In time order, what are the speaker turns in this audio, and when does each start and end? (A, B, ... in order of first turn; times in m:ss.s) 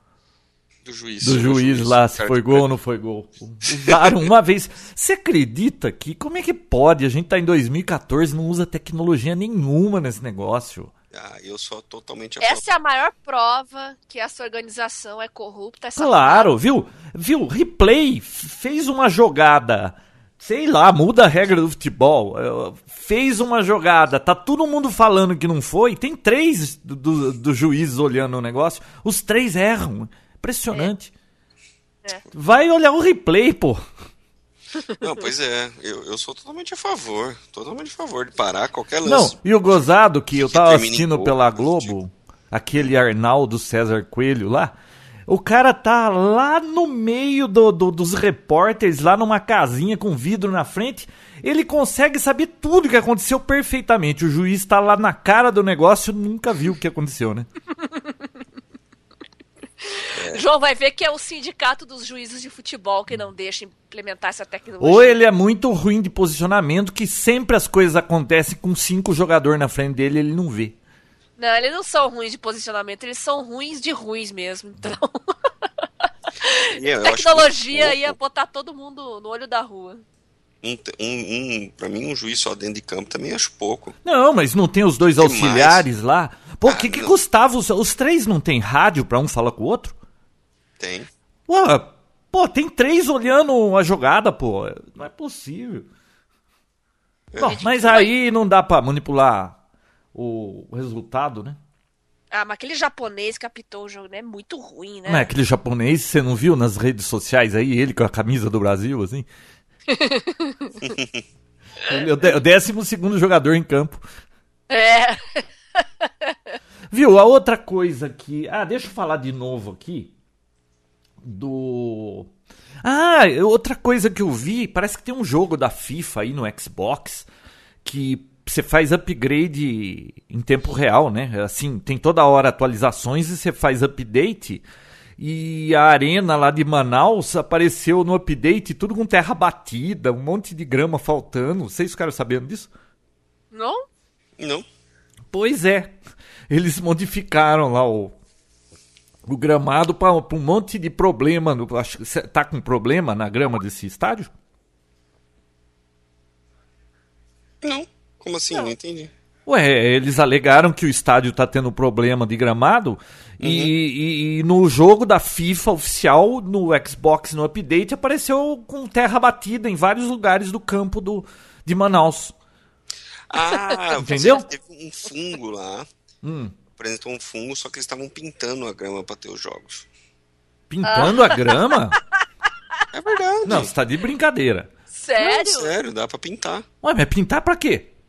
0:00.8-0:02.7 A
0:01.2-0:10.9 B
0:03.9-0:04.2 A
0:11.1-0:12.7 A
0:12.4-0:16.5 C
0:16.0-0:31.1 B
0:32.3-0:33.8 B
0:34.8-0:35.0 C
0:35.0-0:39.4 A
0:39.0-0:44.7 B
0:40.4-0:41.9 A
0:45.3-0:57.5 B
0:57.8-0:58.2 C
0:59.8-1:05.2 C
1:00.1-1:00.4 A
1:04.8-1:10.8 B
1:11.4-1:15.4 C
1:16.0-1:20.0 C
1:16.7-1:18.2 A
1:20.6-1:24.0 A
1:24.0-1:30.0 B
1:25.2-1:25.9 A
1:26.6-1:27.2 A
1:30.8-1:31.1 A
1:31.5-1:35.9 B
1:37.3-1:37.7 A
1:37.4-1:39.6 B
1:37.4-1:38.1 C
1:40.1-1:41.6 B
1:42.3-1:45.3 C
1:45.1-1:49.3 B
1:49.9-1:50.9 C
1:51.9-1:54.0 B
1:54.7-1:56.4 C
1:56.9-2:00.1 B
2:01.2-2:02.3 B
2:02.8-2:07.3 B
2:07.8-2:14.6 B
2:15.2-2:22.7 B
2:23.5-2:23.8 C
2:24.4-2:24.6 A
2:25.3-2:26.0 B
2:26.5-2:28.2 B
2:29.2-2:34.3 B
2:37.6-2:39.1 A
2:39.5-2:52.4 B
2:43.4-2:43.7 A
2:53.3-2:55.9 A
2:53.7-2:54.4 C
2:54.0-2:54.4 B
2:56.2-2:56.6 B
2:56.8-2:59.9 A
3:00.7-3:02.0 B
3:00.8-3:01.8 C
3:02.9-3:03.7 A
3:03.4-3:04.7 B
3:04.9-3:05.7 C
3:05.2-3:06.7 A
3:06.8-3:07.9 B